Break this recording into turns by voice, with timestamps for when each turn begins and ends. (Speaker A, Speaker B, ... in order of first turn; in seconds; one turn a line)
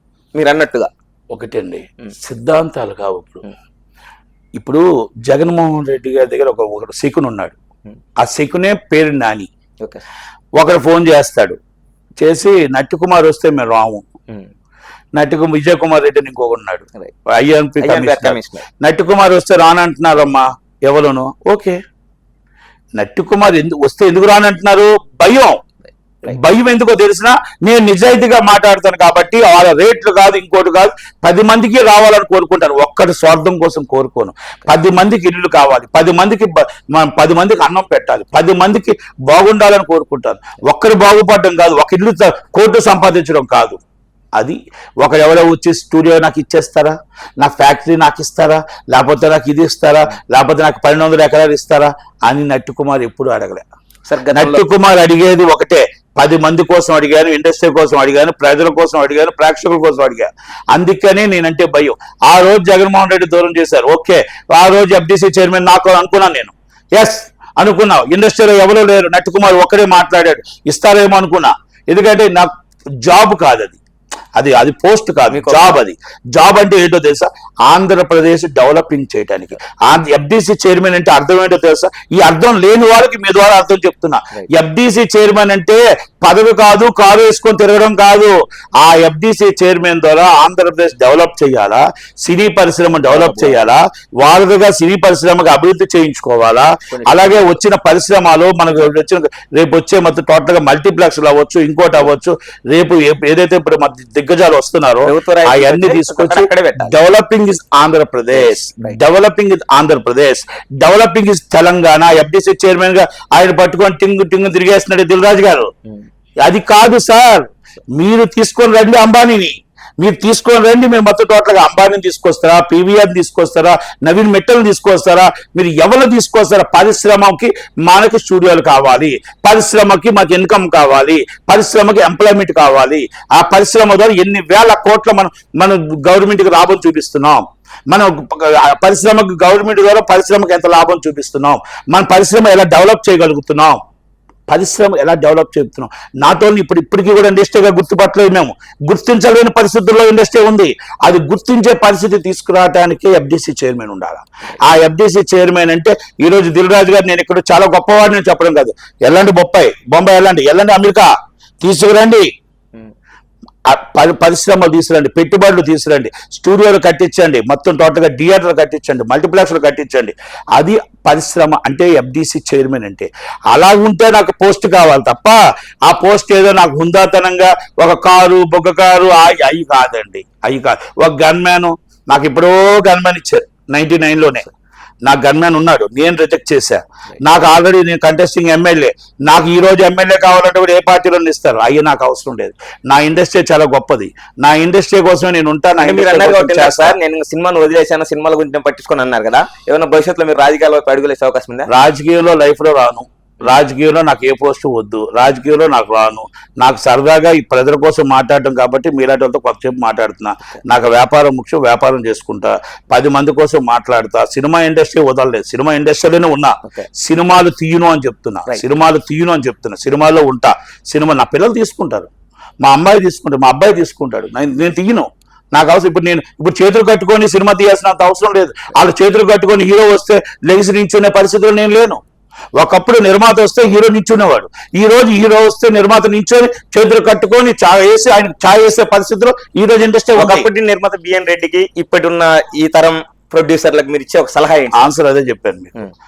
Speaker A: 0.3-0.9
Speaker B: 1.3-3.5
Speaker B: 4.6-7.6
Speaker B: 8.2-9.5
Speaker B: 10.6-11.6
Speaker B: 12.2-14.0
Speaker B: 15.2-21.8
Speaker A: 17.8-18.6
Speaker B: 23.0-25.6
Speaker B: 26.2-43.8
Speaker B: 44.4-53.6
Speaker A: 54.1-54.6
Speaker B: 54.3-72.5
Speaker B: 73.0-73.8
Speaker B: 74.4-115.7
Speaker A: 75.3-75.8
Speaker A: 93.1-93.7
Speaker A: 96.9-97.6
Speaker A: 105.0-106.9
Speaker A: 108.3-109.0
Speaker B: 116.4-143.8
Speaker B: 144.5-161.1
Speaker B: 161.6-162.3
Speaker B: 163.7-184.5
Speaker B: 185.0-196.9
Speaker A: 195.8-201.7
Speaker B: 201.7-222.1
Speaker B: 222.6-232.0
Speaker B: 232.6-240.5
Speaker A: 240.2-244.9
Speaker B: 244.7-245.7